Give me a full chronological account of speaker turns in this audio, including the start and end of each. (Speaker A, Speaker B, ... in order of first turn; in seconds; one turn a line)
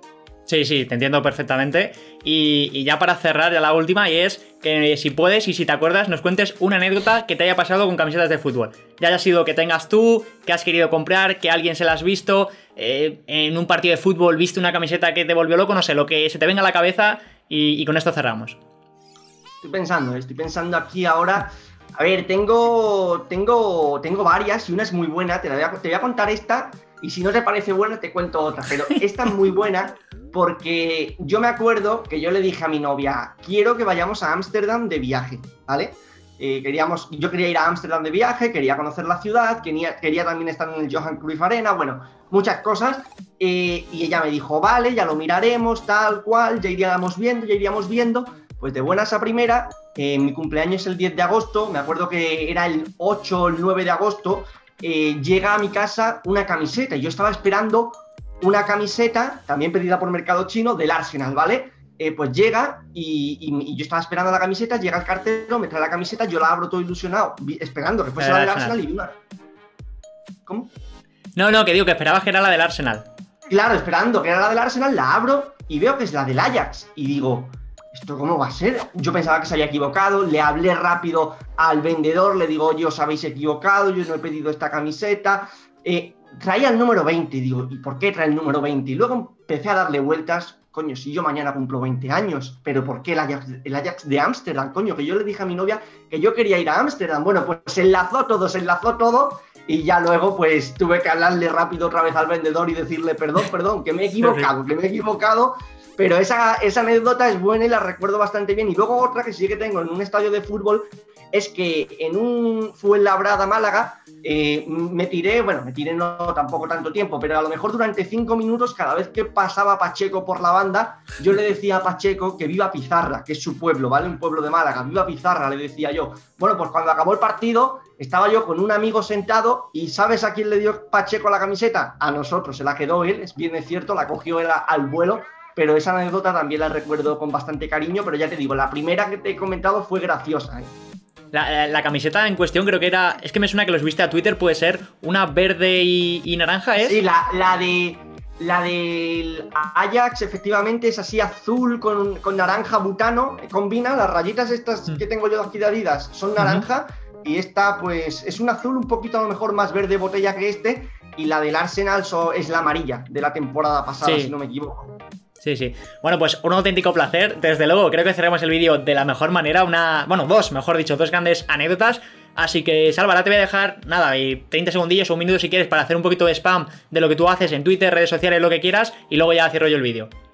Speaker A: 0.5-18.6
Speaker B: 19.6-69.2
Speaker A: 68.2-68.8
Speaker B: 70.5-70.7
Speaker A: 71.4-73.0
Speaker B: 73.5-140.7
Speaker A: 141.3-147.0
Speaker B: 146.8-165.0
Speaker A: 156.4-156.6
Speaker A: 164.0-164.3
Speaker A: 165.4-180.1